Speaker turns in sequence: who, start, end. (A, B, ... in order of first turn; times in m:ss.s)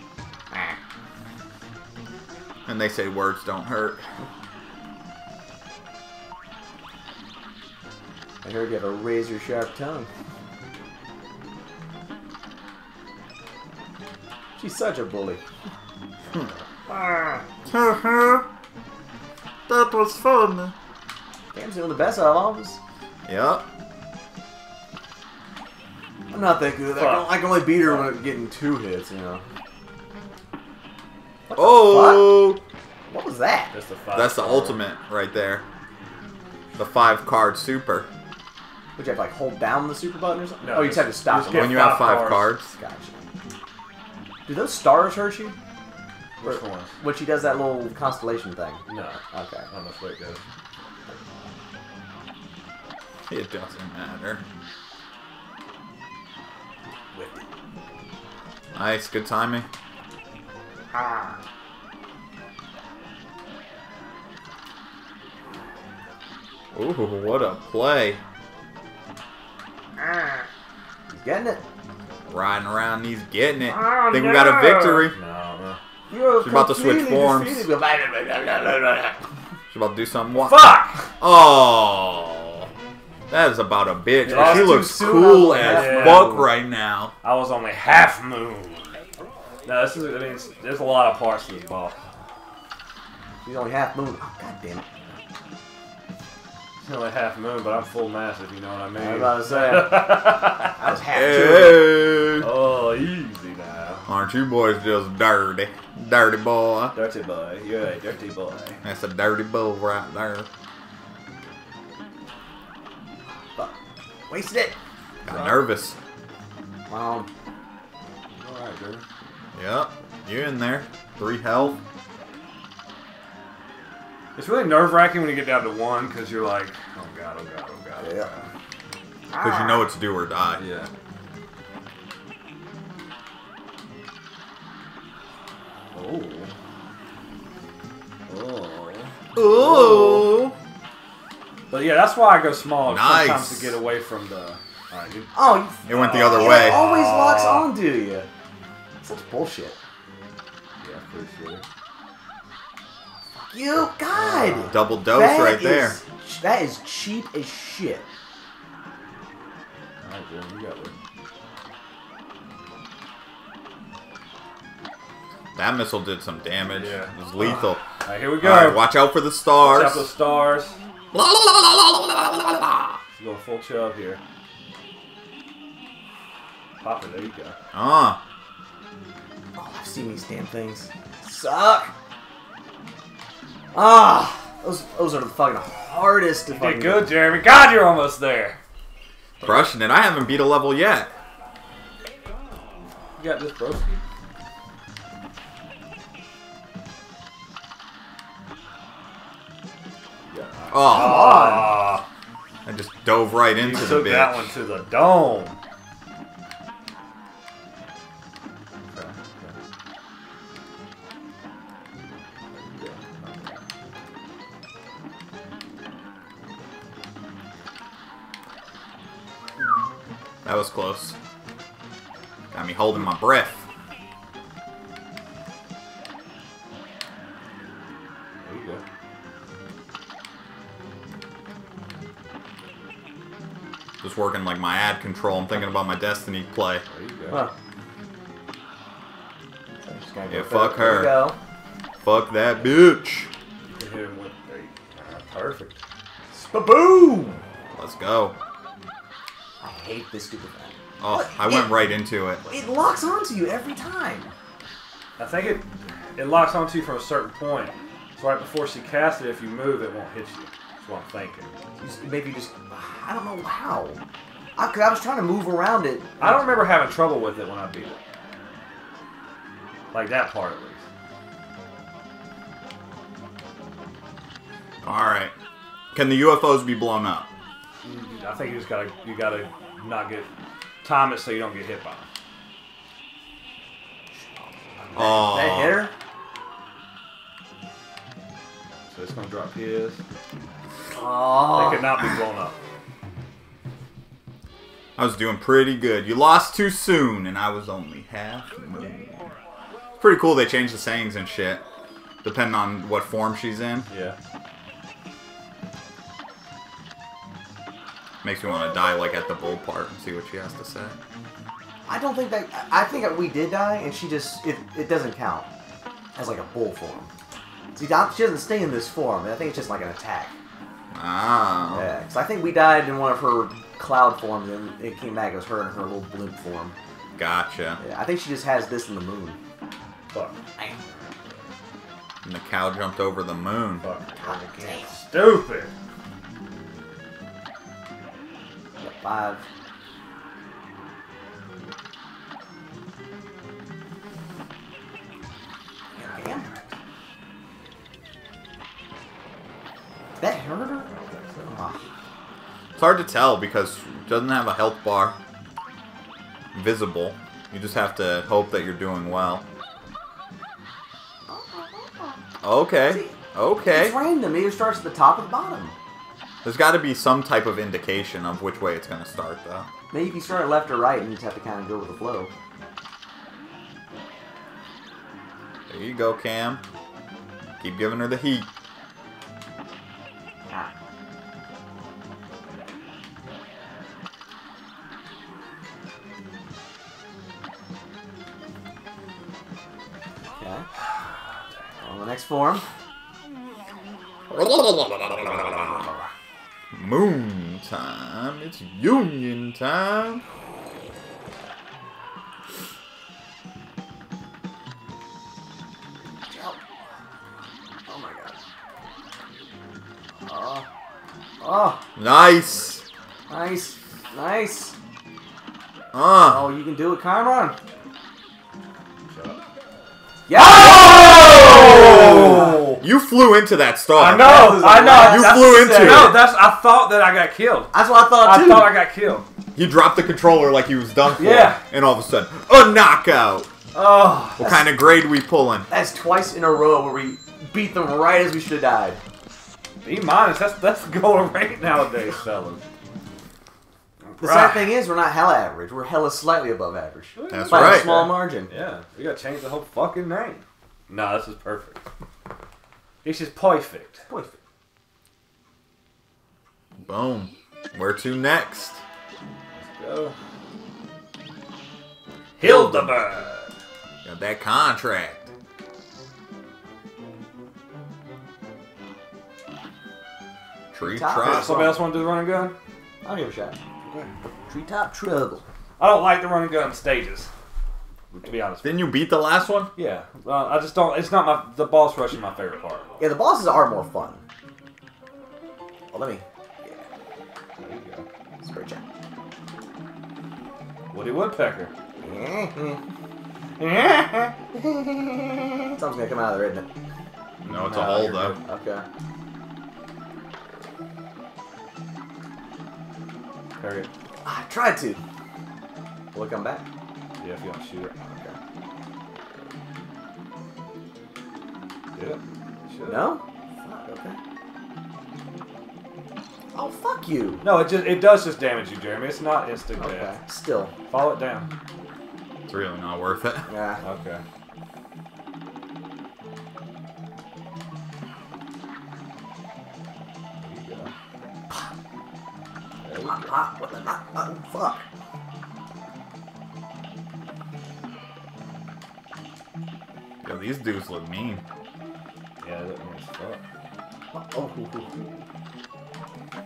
0:02.7-0:04.0 A
0:08.4-0:10.1 B
0:14.6-0:15.4 B
0:17.7-0:18.5 A
0:19.7-0:20.7 A
0:21.5-0:22.8 B
0:23.3-0:23.7 A
0:26.3-0:29.4 B
0:26.9-0:28.2 C
0:31.5-0:32.5 B
0:31.6-0:32.6 A
0:33.1-0:33.7 B
0:33.7-0:34.8 C
0:34.1-0:35.6 A
0:36.8-0:38.1 A
0:39.0-0:41.9 B
0:40.6-0:42.6 C
0:41.5-0:42.7 A
0:42.7-0:43.1 B
0:44.5-0:45.6 B
0:46.4-0:47.0 C
0:46.4-0:49.7 B
0:48.9-0:50.4 C
0:53.3-0:54.4 A
0:57.1-0:57.4 B
0:58.8-0:59.7 A
1:01.0-1:01.3 B
1:06.7-1:08.2 A
1:11.1-1:11.6 B
1:12.3-1:15.2 A
1:13.7-1:14.8 B
1:14.9-1:15.8 C
1:16.1-1:19.2 B
1:16.4-1:17.7 A
1:19.7-1:22.7 A
1:20.4-1:21.1 C
1:23.3-1:27.1 A
1:24.2-1:24.9 C
1:24.3-1:26.5 B
1:25.6-1:26.4 C
1:27.2-1:29.0 C
1:29.7-1:32.0 C
1:33.4-1:34.8 B
1:36.8-1:40.9 C
1:39.0-1:42.0 B
1:41.1-1:42.5 A
1:42.4-1:44.1 C
1:44.1-1:47.0 A
1:46.9-1:48.8 C
1:48.8-1:50.5 A
1:54.3-1:54.8 B
1:55.2-1:56.0 A
1:56.9-1:57.3 B
1:58.4-1:59.0 C
1:59.6-2:01.8 A
2:04.4-2:08.5 C
2:08.0-2:08.3 B
2:09.3-2:09.9 B
2:09.4-2:10.6 A
2:10.6-2:10.9 C
2:15.9-2:16.5 C
2:18.3-2:20.3 C
2:19.4-2:20.6 A
2:21.7-2:25.3 C
2:22.8-2:23.8 A
2:25.3-2:28.3 B
2:25.9-2:26.9 A
2:25.9-2:27.7 C
2:29.0-2:29.8 B
2:30.8-2:31.6 C
2:33.3-2:38.0 B
2:34.1-2:34.8 C
2:34.6-2:36.0 A
2:40.0-2:40.9 C
2:45.6-2:47.8 A
2:46.7-2:48.9 C
2:48.4-2:50.1 A
2:49.6-2:50.8 C
2:51.1-2:53.0 A
2:53.2-2:54.2 C
2:56.8-2:57.6 C
2:57.7-2:58.2 A
2:59.6-3:01.9 B
3:03.7-3:07.2 B
3:06.5-3:08.6 C
3:09.4-3:09.7 B
3:09.4-3:11.1 A
3:13.2-3:14.0 C
3:20.3-3:22.0 C
3:20.7-3:21.6 A
3:20.8-3:21.9 B
3:22.6-3:24.5 A
3:23.6-3:25.6 C
3:28.9-3:29.6 C
3:32.5-3:33.6 C
3:40.4-3:41.2 A
3:42.5-3:43.6 A
3:48.4-3:48.8 C
3:54.0-3:56.8 A
3:56.9-3:57.5 C
3:59.8-4:01.4 B
4:00.3-4:01.2 A
4:02.0-4:03.3 A
4:03.8-4:05.8 C
4:06.3-4:07.4 B
4:07.7-4:08.4 A
4:09.6-4:11.8 B
4:11.0-4:12.4 A
4:12.4-4:14.3 B
4:15.2-4:21.5 C
4:21.8-4:24.0 B
4:24.6-4:26.6 B
4:26.2-4:28.0 C
4:29.9-4:30.8 C
4:34.8-4:35.3 A
4:35.9-4:37.3 A
4:37.8-4:40.3 C
4:40.8-4:42.1 C
4:44.8-4:45.9 B
4:45.0-4:45.8 A
4:48.9-4:50.0 C
4:50.9-4:52.1 B
4:51.5-4:52.6 C
4:55.0-4:59.3 A
5:00.0-5:01.6 A
5:02.2-5:03.9 A
5:03.9-5:04.2 C
5:08.2-5:11.0 A
5:11.9-5:15.5 B
5:16.2-5:17.1 B
5:17.7-5:20.4 B
5:20.9-5:21.9 A
5:21.7-5:26.8 B
5:27.2-5:27.8 A
5:27.8-5:29.4 B
5:30.1-5:31.4 C
5:32.2-5:33.9 A
5:33.8-5:35.7 C
5:34.2-5:35.0 B
5:38.8-5:39.4 B
5:46.0-5:46.5 B
5:46.0-5:46.7 C
5:50.2-5:50.9 B
5:50.9-5:51.6 C
5:51.4-5:51.8 B
5:52.8-5:55.2 A
5:56.5-5:59.4 A
6:01.3-6:02.2 B
6:02.4-6:04.0 A
6:02.9-6:05.8 B
6:06.4-6:09.7 A
6:09.9-6:12.3 B
6:15.7-6:16.6 A
6:17.6-6:18.5 A
6:30.4-6:30.7 B
6:31.8-6:32.6 B
6:34.3-6:35.5 A
6:35.2-6:36.1 B
6:36.7-6:40.2 A
6:46.2-6:46.6 B
6:47.9-6:48.4 B
6:50.2-6:50.6 B
6:51.4-6:51.8 B
6:52.0-6:52.8 A
6:53.3-6:54.8 B
6:55.9-6:56.5 A
6:56.2-6:57.6 B
6:59.1-6:59.4 C
7:00.3-7:02.6 B
7:00.3-7:02.8 C
7:01.4-7:06.2 A
7:03.9-7:09.3 C
7:04.2-7:06.1 B
7:07.7-7:08.8 B
7:09.6-7:13.5 A
7:11.2-7:11.6 C
7:13.7-7:14.5 C
7:14.4-7:14.8 B
7:14.4-7:15.7 A
7:15.7-7:19.0 B
7:19.8-7:22.6 C
7:24.0-7:24.8 C
7:24.2-7:28.5 B
7:27.2-7:31.8 C
7:27.3-7:28.1 A
7:33.0-7:34.0 C
7:34.1-7:34.4 B
7:36.8-7:38.8 A
7:39.6-7:40.2 C
7:42.4-7:43.5 C
7:42.4-7:43.0 A
7:44.0-7:45.3 A
7:50.7-7:51.7 A
7:50.8-7:51.8 B
7:51.2-7:52.6 C
7:53.0-7:53.6 B
7:53.8-7:54.1 C
7:54.5-7:55.4 B
7:55.8-7:57.3 C
7:58.1-7:58.9 C
7:58.6-7:59.7 A
7:59.8-8:02.9 C
8:03.0-8:04.2 B
8:05.9-8:06.8 B
8:07.6-8:08.0 C
8:08.4-8:08.8 B
8:10.9-8:11.7 C
8:12.0-8:12.8 B
8:13.6-8:14.1 B
8:15.7-8:16.7 B
8:17.4-8:18.4 C
8:17.5-8:18.4 A
8:17.7-8:18.8 B
8:23.6-8:23.9 C
8:24.2-8:25.0 B
8:26.1-8:26.7 B
8:27.2-8:27.9 C
8:28.1-8:28.4 B
8:32.0-8:33.2 C
8:32.8-8:34.2 B
8:36.5-8:37.4 B
8:37.4-8:40.1 C
8:39.8-8:40.7 B
8:40.9-8:41.5 C
8:42.5-8:43.5 A
8:43.5-8:43.8 B
8:43.8-8:44.2 C
8:50.4-8:50.9 C
8:52.8-8:53.4 C
8:53.0-8:54.9 B
9:00.2-9:01.4 A
9:02.4-9:03.4 C
9:04.1-9:05.2 B